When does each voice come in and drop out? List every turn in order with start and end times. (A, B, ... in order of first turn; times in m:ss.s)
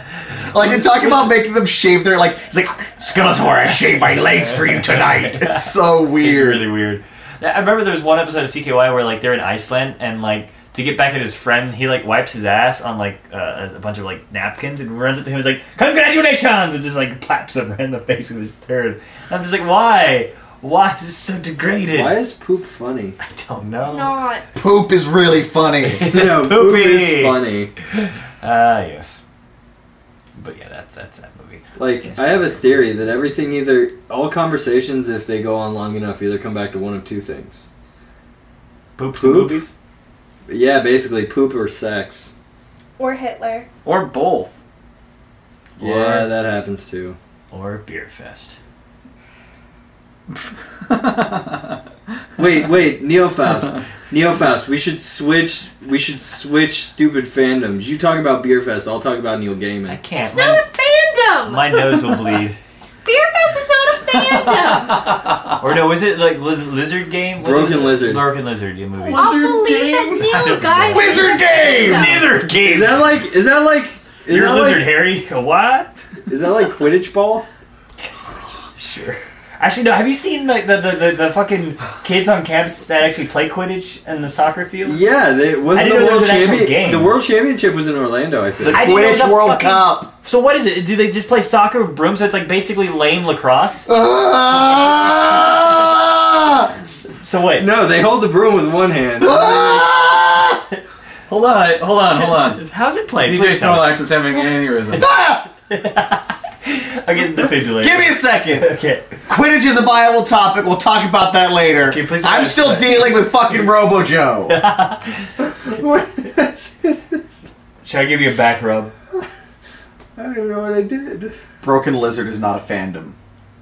0:00.5-0:06.7 A
0:00.6-0:01.4 B
0:04.1-0:22.2 B
0:21.9-0:23.2 C
0:23.2-0:24.2 B
0:23.8-0:24.4 D
0:24.6-0:26.1 A
0:25.8-0:27.4 B
0:26.0-0:27.7 C
0:27.9-0:29.2 B
0:30.4-0:32.9 B
0:31.8-0:37.7 C
0:39.0-0:39.7 B
0:39.2-0:39.6 C
0:40.5-0:42.3 C
0:43.0-0:43.7 D
0:43.8-0:44.6 E
0:45.8-0:46.3 B
0:45.8-0:47.2 C
0:47.5-0:48.6 B
0:50.9-0:51.8 E
0:52.4-1:00.0 C
0:59.9-1:00.7 B
1:00.2-1:02.3 D
1:01.4-1:02.6 B
1:03.0-1:05.1 D
1:04.1-1:05.2 E
1:05.6-1:09.5 B
1:07.4-1:08.3 C
1:09.0-1:10.3 E
1:09.2-1:12.3 D
1:10.3-1:13.1 B
1:10.9-1:12.2 A
1:12.6-1:15.0 C
1:14.3-1:16.0 B
1:16.3-1:17.5 C
1:18.7-1:25.0 B
1:24.8-1:29.0 C
1:25.7-1:27.2 B
1:28.6-1:30.1 A
1:28.7-1:33.9 B
1:33.9-1:36.8 A
1:37.0-1:37.7 B
1:37.6-1:39.9 C
1:39.2-1:40.6 A
1:41.3-1:42.6 E
1:42.2-1:44.1 B
1:43.2-1:45.1 E
1:44.9-1:45.5 A
1:44.9-1:49.2 B
1:47.7-1:48.7 A
1:49.3-1:54.6 A
1:51.8-1:53.3 B
1:54.5-1:55.2 B
1:55.5-1:57.3 C
1:57.8-1:58.9 B
2:00.2-2:01.4 C
2:01.6-2:03.2 A